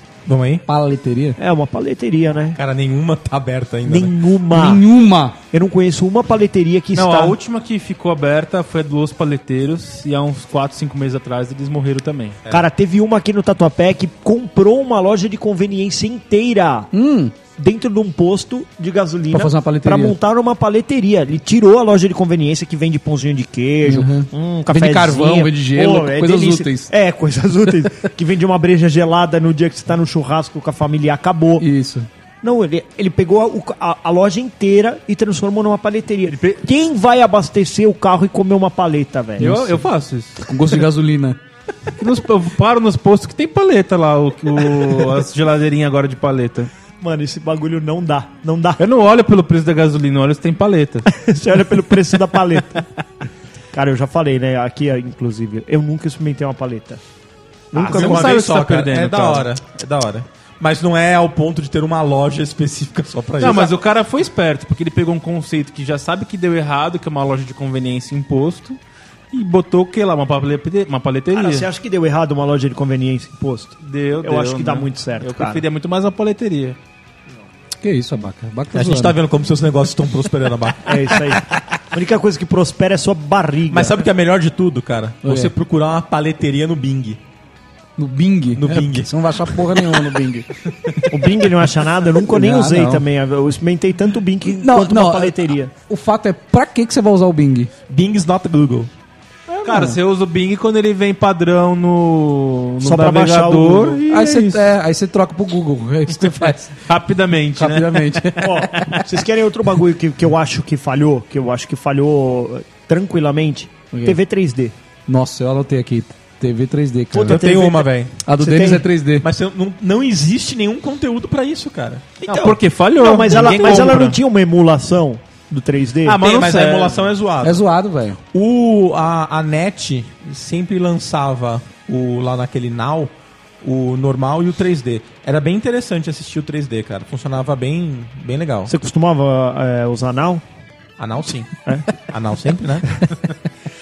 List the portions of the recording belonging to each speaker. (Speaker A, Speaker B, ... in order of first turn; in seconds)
Speaker A: 0.2-0.6, 2.5-4.1, 57.7-63.7, 78.7-81.2, 83.7-87.2, 88.5-89.1, 97.9-98.9, 117.2-118.2, 119.2-122.2, 126.2-127.6, 128.3-138.7, 141.0-143.0
Speaker B: 0.7-1.4, 4.5-5.4, 16.9-17.3, 19.3-20.1, 23.9-26.9, 31.6-32.1, 39.4-39.8, 40.4-41.4, 77.8-79.2, 85.2-85.5, 88.0-90.5, 92.3-93.0, 94.5-97.7, 99.7-99.9, 104.1-106.7, 107.5-108.6, 113.9-114.2, 115.1-117.4, 118.2-119.3, 127.4-128.2
Speaker C: 1.4-2.6, 3.9-4.8, 5.5-7.3, 12.5-16.9, 17.6-31.6, 32.4-39.6, 47.0-48.8, 51.1-52.8, 53.7-57.0, 57.7-58.3, 71.3-75.6, 80.8-84.0, 91.1-95.7, 102.8-104.0, 108.4-114.7, 117.1-118.9, 122.3-126.2, 138.7-140.4, 141.7-141.9
Speaker D: 6.9-12.4, 36.3-36.6, 39.4-40.4, 42.0-46.7, 48.8-51.1, 57.7-59.5, 63.4-68.8, 69.3-71.7, 73.8-76.8, 99.5-104.7, 106.8-108.9, 122.3-124.2, 126.0-127.1